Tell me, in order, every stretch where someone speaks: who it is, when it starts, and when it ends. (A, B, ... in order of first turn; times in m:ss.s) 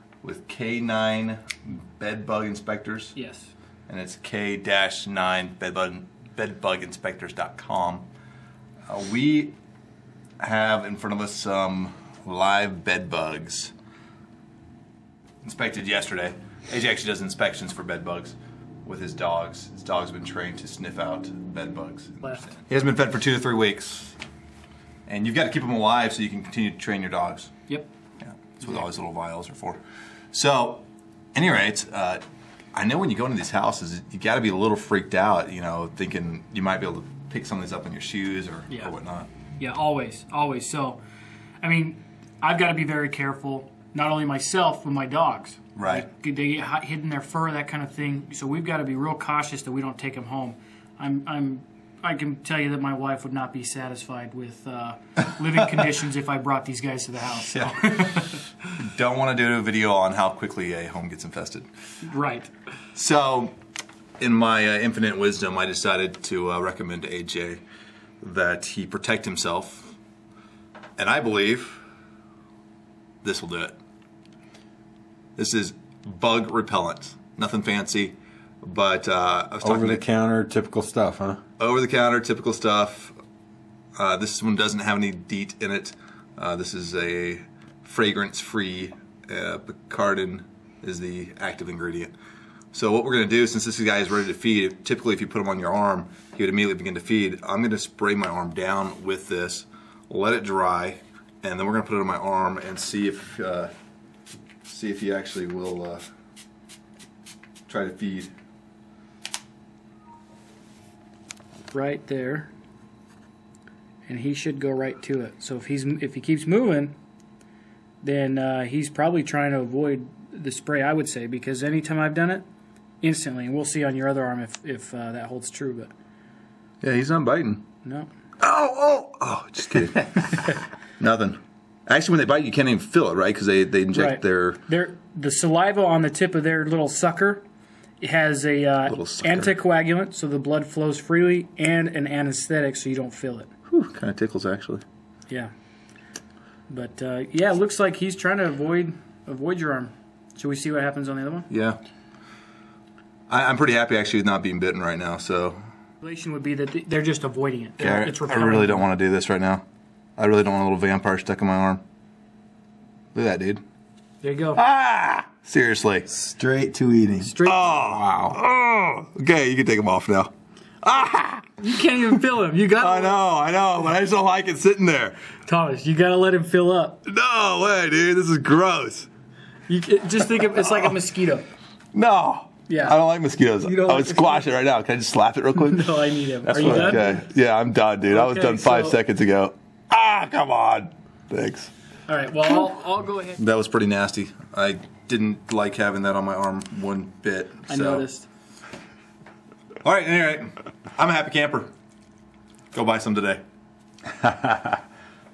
0:00.2-0:03.1 A
0:03.1-0:03.5 B
0:03.9-0:08.1 A
0:08.9-0:09.5 A
0:10.4-0:13.7 A
0:15.4-0:24.2 A
0:25.1-0:27.5 A
0:28.2-0:29.8 A
0:30.3-0:30.8 A
0:31.3-0:32.2 A
0:32.7-0:39.3 A
0:39.6-0:41.0 B
0:41.6-0:58.4 B
0:45.8-0:46.0 A
0:57.4-1:01.7 A
1:02.0-1:02.5 B
1:02.9-1:03.5 A
1:04.2-1:07.6 A
1:08.2-1:10.0 A
1:11.0-1:11.8 A
1:13.2-1:13.8 A
1:15.4-1:20.0 A
1:19.6-1:21.4 C
1:21.6-1:23.2 A
1:24.0-1:32.1 A
1:32.7-1:43.7 A
1:44.6-1:46.0 A
1:47.7-1:48.3 A
1:51.7-1:52.5 B
1:54.1-1:57.0 B
1:58.0-2:02.4 B
2:03.0-2:05.9 B
2:06.8-2:07.6 A
2:08.4-2:14.6 A
2:13.9-2:17.4 B
2:18.0-2:23.5 B
2:18.8-2:19.6 A
2:23.7-2:24.8 A
2:26.7-2:31.5 B
2:31.5-2:31.8 A
2:33.3-2:35.6 A
2:36.0-2:38.9 B
2:37.8-2:39.6 A
2:40.2-2:41.8 A
2:43.1-2:43.6 A
2:44.2-2:44.6 B
2:44.6-2:46.1 A
2:46.1-2:48.4 C
2:47.2-2:48.0 B
2:47.4-2:51.5 A
2:51.6-2:53.2 B
2:52.8-2:55.2 A
2:55.5-2:57.0 B
2:57.0-2:59.1 A
2:59.7-3:01.5 B
3:00.6-3:00.9 A
3:01.9-3:05.9 A
3:02.7-3:03.0 B
3:03.6-3:04.5 B
3:05.6-3:07.2 B
3:06.4-3:11.7 A
3:08.1-3:09.0 B
3:12.1-3:13.4 B
3:13.4-3:18.1 A
3:17.7-3:18.3 B
3:19.8-3:21.7 A
3:22.7-3:23.4 A